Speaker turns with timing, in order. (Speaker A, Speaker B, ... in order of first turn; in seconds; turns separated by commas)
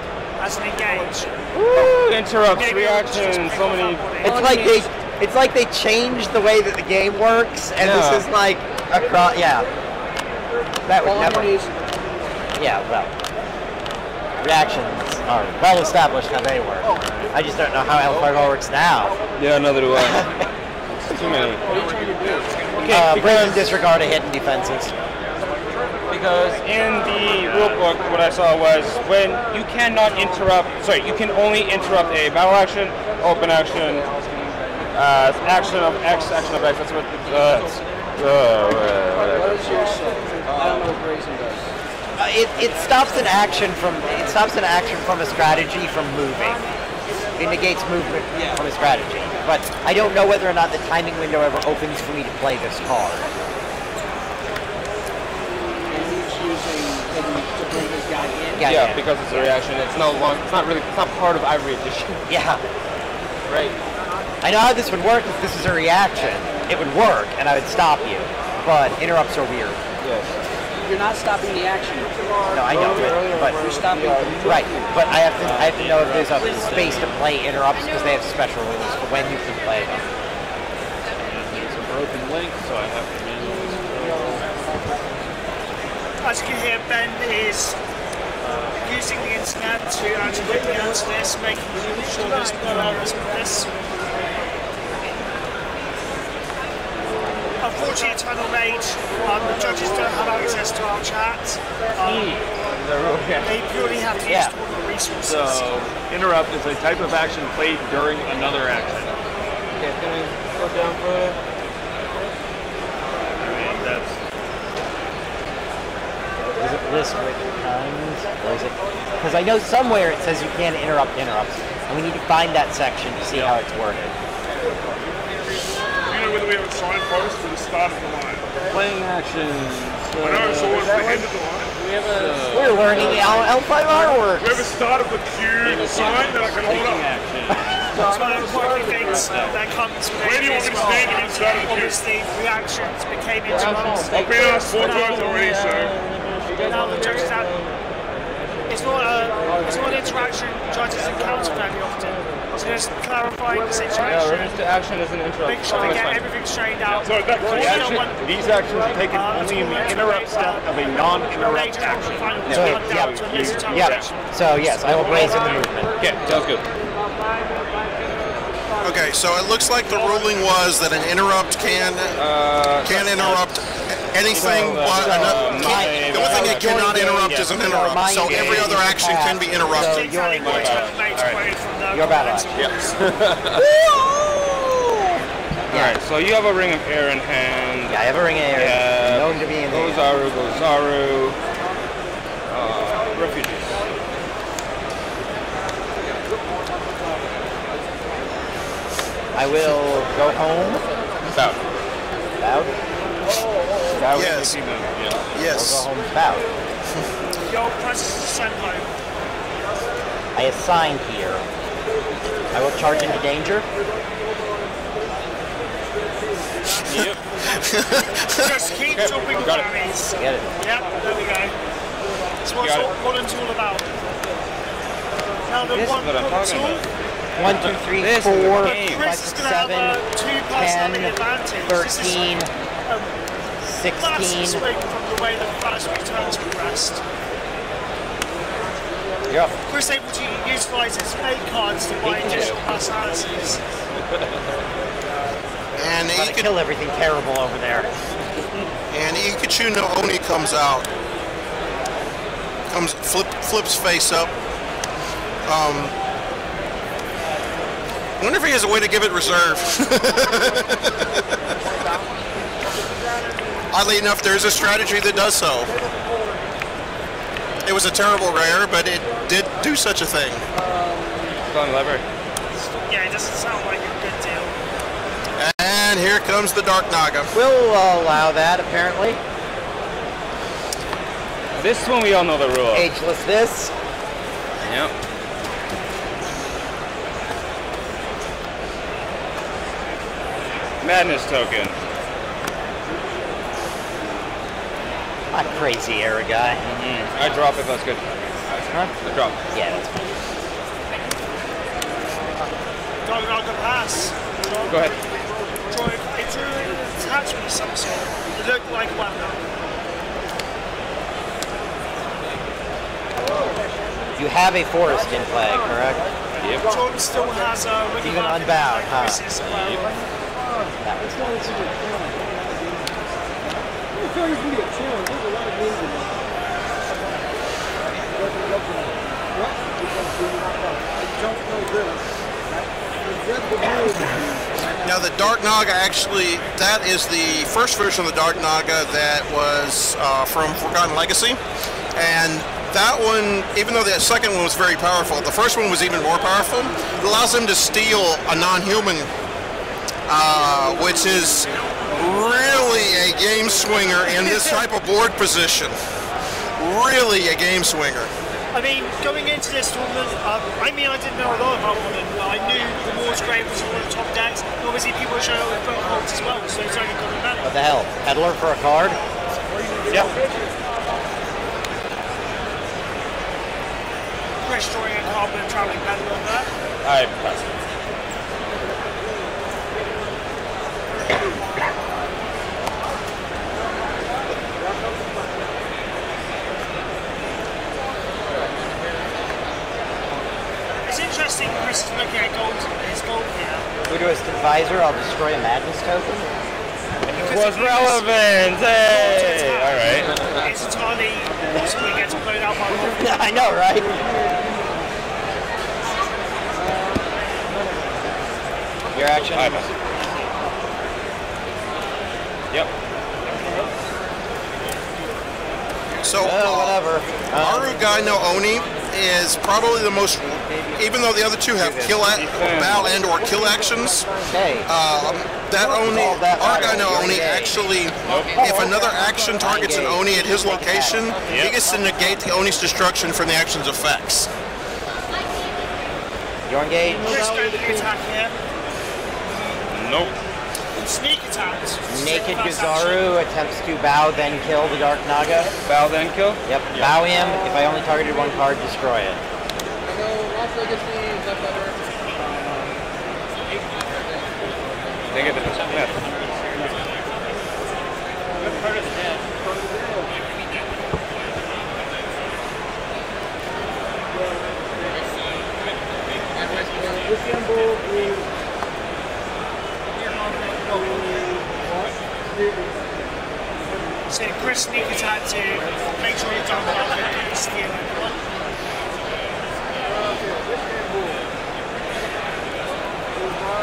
Speaker A: 0.4-1.3, Speaker B: 1.5-4.6, Speaker A: 2.5-4.6, Speaker C: 4.2-9.7, Speaker D: 4.3-4.8, Speaker B: 7.8-8.3, Speaker C: 10.9-11.5, Speaker D: 11.0-12.0, Speaker C: 12.6-13.1, Speaker C: 14.4-19.2, Speaker E: 18.1-18.4, Speaker B: 19.4-20.2, Speaker C: 19.9-20.4, Speaker E: 21.0-22.7, Speaker B: 21.1-21.8, Speaker B: 22.8-23.8, Speaker C: 22.9-24.9, Speaker B: 26.1-34.1, Speaker E: 27.2-27.8, Speaker D: 34.1-34.8, Speaker B: 34.9-39.8, Speaker D: 39.2-41.6, Speaker E: 40.5-40.8, Speaker B: 40.6-40.9, Speaker C: 42.2-46.6, Speaker D: 42.6-44.4, Speaker C: 47.4-53.2, Speaker D: 48.3-48.7, Speaker D: 55.9-58.6, Speaker C: 58.6-59.0, Speaker B: 58.6-62.2, Speaker C: 62.3-62.6, Speaker B: 63.5-63.7, Speaker C: 64.4-69.8, Speaker B: 70.0-70.3, Speaker D: 70.8-75.2, Speaker C: 72.5-73.6, Speaker B: 72.7-74.2, Speaker C: 74.4-80.1, Speaker E: 75.4-77.2, Speaker D: 76.4-77.0, Speaker E: 81.2-84.5, Speaker A: 86.2-87.8, Speaker A: 88.8-93.7, Speaker A: 97.6-102.4, Speaker B: 102.0-103.5, Speaker A: 103.4-105.8, Speaker C: 104.3-104.5, Speaker E: 105.2-109.2, Speaker B: 109.8-111.4, Speaker E: 113.4-114.2, Speaker C: 116.6-124.1, Speaker E: 123.3-123.6, Speaker F: 126.1-128.5, Speaker E: 128.7-131.2, Speaker F: 130.2-131.7, Speaker E: 131.8-133.6, Speaker C: 132.5-134.6, Speaker F: 134.2-137.1, Speaker E: 135.6-139.6, Speaker A: 138.0-145.4, Speaker F: 140.2-142.0, Speaker E: 140.6-141.0, Speaker B: 143.5-147.7, Speaker F: 144.1-146.0, Speaker A: 146.6-147.6, Speaker A: 148.7-154.6, Speaker B: 154.0-156.2, Speaker A: 155.4-164.2, Speaker E: 157.0-164.1, Speaker B: 157.5-158.0, Speaker C: 162.5-162.9, Speaker B: 162.6-163.4, Speaker C: 163.7-165.9, Speaker E: 164.9-165.6, Speaker B: 166.0-166.7, Speaker G: 168.8-172.2, Speaker B: 172.2-173.5, Speaker G: 172.8-180.1, Speaker B: 174.3-177.6, Speaker C: 174.9-180.8, Speaker B: 178.2-178.8, Speaker A: 179.8-183.0, Speaker B: 180.4-181.4, Speaker C: 181.9-182.5, Speaker E: 182.6-183.7, Speaker C: 183.6-184.8, Speaker C: 185.7-186.0, Speaker B: 185.7-188.0, Speaker C: 187.9-190.0, Speaker B: 188.5-191.4, Speaker B: 192.5-193.8, Speaker C: 199.3-200.8, Speaker C: 202.4-202.7, Speaker B: 203.9-204.9, Speaker G: 204.1-204.6, Speaker E: 204.9-205.2, Speaker G: 205.3-205.9, Speaker C: 205.4-206.5, Speaker A: 207.4-208.9, Speaker C: 210.3-211.4, Speaker C: 212.5-213.7, Speaker B: 216.9-217.2, Speaker G: 217.7-218.1, Speaker A: 218.4-221.6, Speaker B: 218.9-219.7, Speaker C: 220.2-220.5, Speaker A: 222.4-223.9, Speaker B: 222.6-222.9, Speaker A: 225.5-226.9, Speaker B: 225.7-226.8, Speaker C: 227.4-231.2, Speaker B: 227.9-229.1, Speaker A: 228.6-233.1, Speaker C: 231.7-232.5, Speaker C: 233.6-234.6, Speaker A: 234.0-237.0, Speaker C: 239.3-239.5, Speaker A: 239.7-243.6, Speaker B: 242.2-242.5, Speaker E: 242.2-242.6, Speaker G: 245.8-246.5, Speaker C: 246.1-247.9, Speaker G: 248.9-250.9, Speaker G: 252.7-254.3, Speaker G: 255.5-255.9, Speaker G: 258.2-261.0, Speaker G: 263.7-265.7, Speaker G: 267.7-270.4, Speaker B: 271.5-272.0, Speaker A: 272.8-274.6, Speaker G: 275.4-277.3, Speaker C: 277.3-279.2, Speaker B: 281.6-282.9, Speaker C: 282.7-283.7, Speaker B: 284.6-284.9, Speaker B: 290.8-291.8, Speaker C: 295.3-296.6, Speaker B: 296.7-298.0, Speaker B: 299.0-299.4, Speaker C: 299.5-300.0, Speaker A: 303.1-304.9, Speaker B: 304.7-304.9, Speaker A: 305.7-309.4, Speaker C: 314.2-316.0, Speaker B: 316.4-316.6, Speaker A: 316.6-319.9, Speaker C: 318.0-319.2, Speaker B: 319.4-319.8, Speaker C: 320.8-321.7, Speaker G: 334.8-341.4, Speaker G: 342.0-349.1, Speaker G: 350.1-355.8, Speaker G: 356.6-358.1, Speaker A: 358.5-367.5, Speaker C: 367.4-369.0, Speaker A: 374.4-376.5, Speaker B: 376.9-377.4, Speaker A: 390.8-393.7, Speaker C: 393.9-396.4, Speaker B: 397.1-400.1, Speaker A: 397.1-398.1, Speaker A: 398.9-403.3, Speaker C: 403.0-403.9, Speaker C: 408.9-409.7, Speaker B: 409.3-409.7, Speaker G: 416.0-416.8, Speaker C: 416.2-417.8, Speaker G: 417.4-424.1, Speaker B: 421.6-422.9, Speaker C: 424.3-424.7, Speaker G: 424.7-434.3, Speaker C: 425.7-427.6, Speaker B: 428.0-428.3, Speaker C: 428.4-431.1, Speaker B: 431.3-431.6, Speaker C: 436.5-437.2, Speaker A: 437.0-438.3, Speaker B: 439.7-440.1, Speaker A: 440.8-443.1, Speaker C: 441.9-445.5, Speaker B: 445.7-447.0, Speaker C: 446.5-449.2, Speaker B: 455.1-456.0, Speaker A: 474.1-478.2